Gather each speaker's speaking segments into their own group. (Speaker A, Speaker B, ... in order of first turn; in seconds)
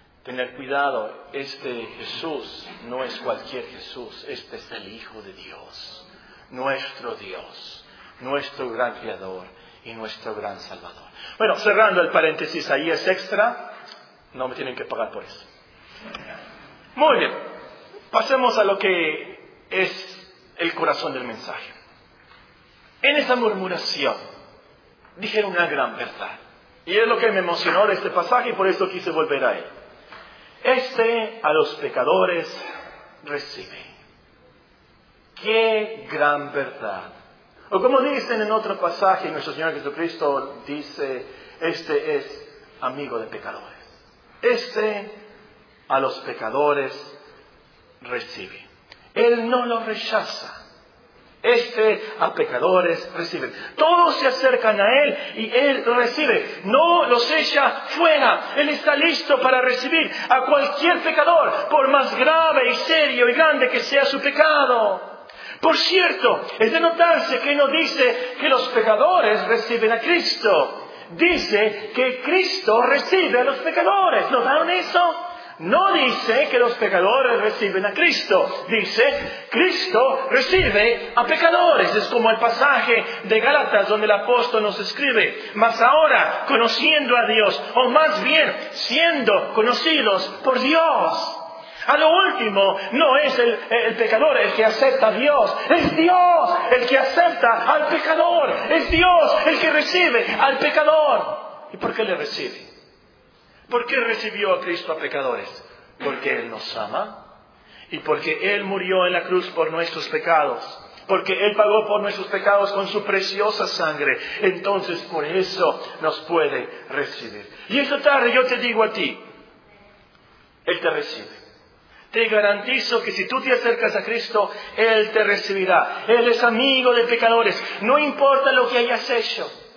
Speaker A: 0.2-13.7, 14.3-15.5, 16.9-17.4, 18.1-21.7, 23.0-24.2, 25.2-29.7, 30.6-32.6, 33.2-33.9, 35.4-37.1, 37.7-43.9, 44.4-45.2, 45.9-47.2, 48.0-50.5, 51.4-65.1, 65.6-102.7, 103.7-107.3, 107.9-119.2, 120.7-121.4, 122.1-129.5